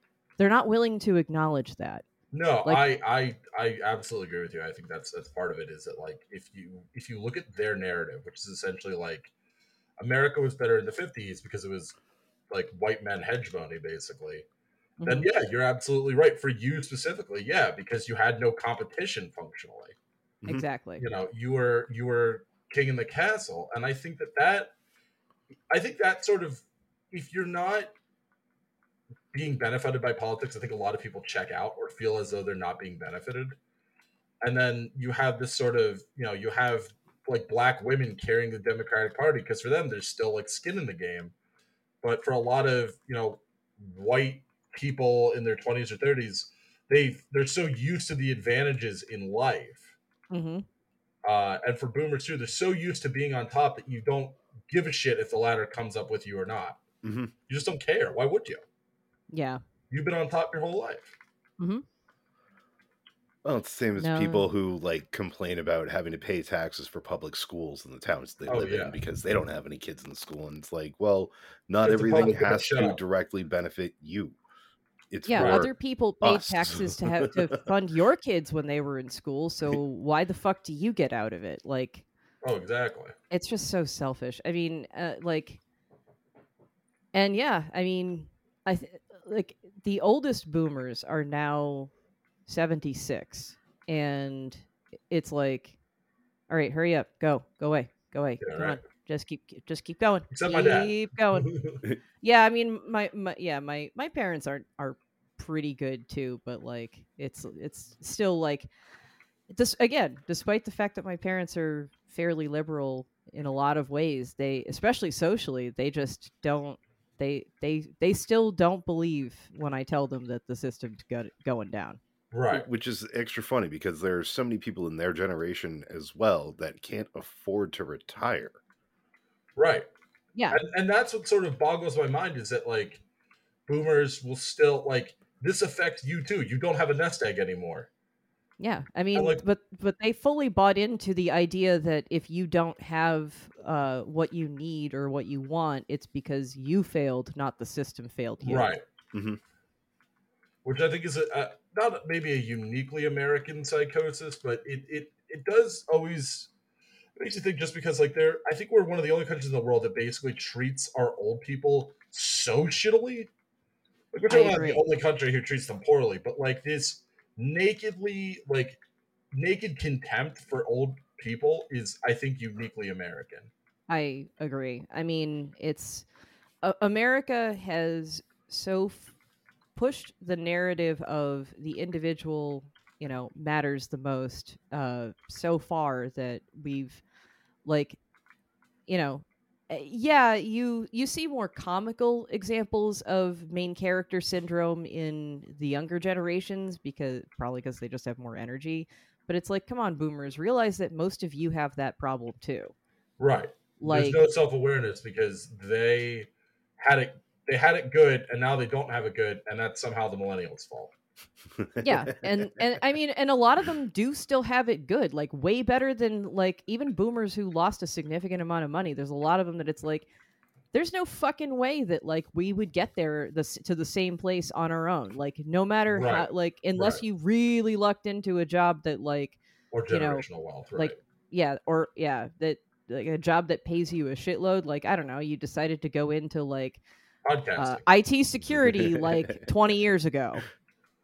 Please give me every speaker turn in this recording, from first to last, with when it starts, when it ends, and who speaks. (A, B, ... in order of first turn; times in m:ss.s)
0:00.4-0:02.0 A
0:02.3-0:09.3 B
0:10.0-0:12.0 B
0:12.5-0:14.5 B
0:15.0-0:15.3 A
0:15.0-0:20.0 B
0:20.5-0:21.0 A
0:21.0-0:24.7 B
0:25.7-0:27.9 B
0:29.3-0:33.6 B
0:34.4-0:41.3 B
0:42.0-0:49.9 B
0:50.3-0:50.6 A
0:51.2-0:56.8 B
0:57.0-0:57.3 C
0:57.5-0:58.6 B
0:59.3-0:59.6 A
0:59.9-1:01.2 B
1:01.6-1:01.8 A
1:03.4-1:14.4 C
1:04.0-1:04.5 A
1:08.5-1:09.0 B
1:11.8-1:13.0 B
1:15.1-1:17.4 C
1:15.2-1:22.0 A
1:15.4-1:15.6 B
1:22.4-1:23.1 B
1:23.3-1:25.6 A
1:27.1-1:31.9 A
1:32.5-1:35.8 A
1:36.5-1:41.5 A
1:38.4-1:38.8 B
1:40.3-1:41.8 B
1:42.2-1:48.7 A
1:49.5-2:02.0 A
2:02.3-2:02.7 B
2:02.5-2:08.6 C
2:09.6-2:09.9 B
2:10.4-2:10.6 A
2:10.5-2:13.0 B
2:13.7-2:17.9 B
2:18.6-2:28.7 A
2:19.1-2:19.4 B
2:28.4-2:28.8 B
2:29.1-2:29.4 C
2:30.6-2:36.5 B
2:37.2-2:43.3 B
2:44.1-2:48.8 B
2:44.3-2:44.8 A
2:49.3-2:53.5 B
2:53.9-2:56.1 A
2:56.6-2:59.1 A
2:59.8-3:07.0 A
3:07.6-3:08.0 A
3:08.9-3:22.7 A
3:23.2-3:30.9 B
3:23.8-3:24.2 A
3:31.6-3:32.0 C
3:31.8-3:40.1 A
3:40.7-3:50.2 A
3:45.9-3:47.0 B
3:49.7-3:51.0 B
3:50.8-3:56.8 A
3:57.2-3:57.8 B
3:57.6-4:00.4 A
3:58.6-3:59.4 C